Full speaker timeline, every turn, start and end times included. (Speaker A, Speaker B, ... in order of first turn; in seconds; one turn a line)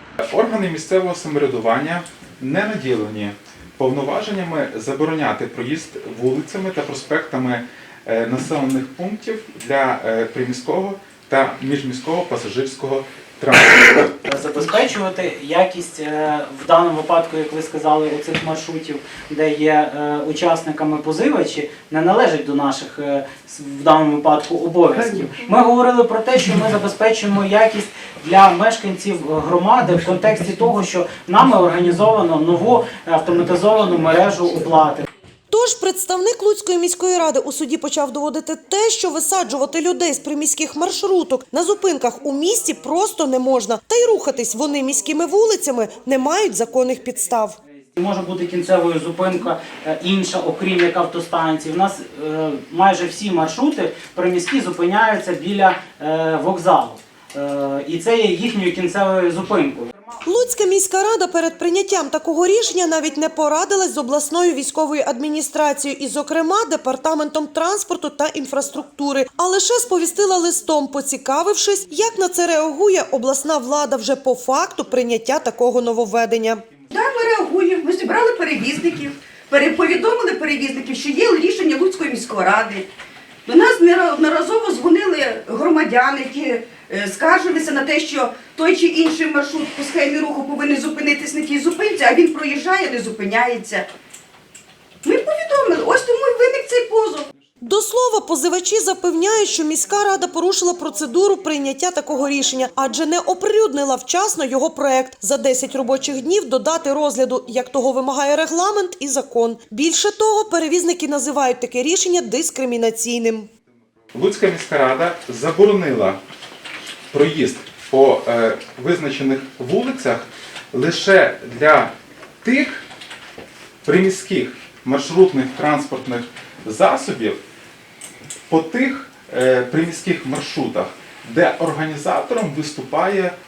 Speaker A: 0.3-14.2
Speaker B: 14.2-35.0
Speaker C: 35.5-47.6
Speaker B: 48.0-60.1
Speaker C: 60.2-76.6
Speaker D: 76.9-82.9
Speaker D: 83.5-93.9
Speaker D: 95.0-97.3
Speaker C: 97.6-113.5
Speaker A: 114.1-116.2
Speaker A: 117.1-122.8
Speaker A: 123.8-127.4
Speaker A: 128.5-133.3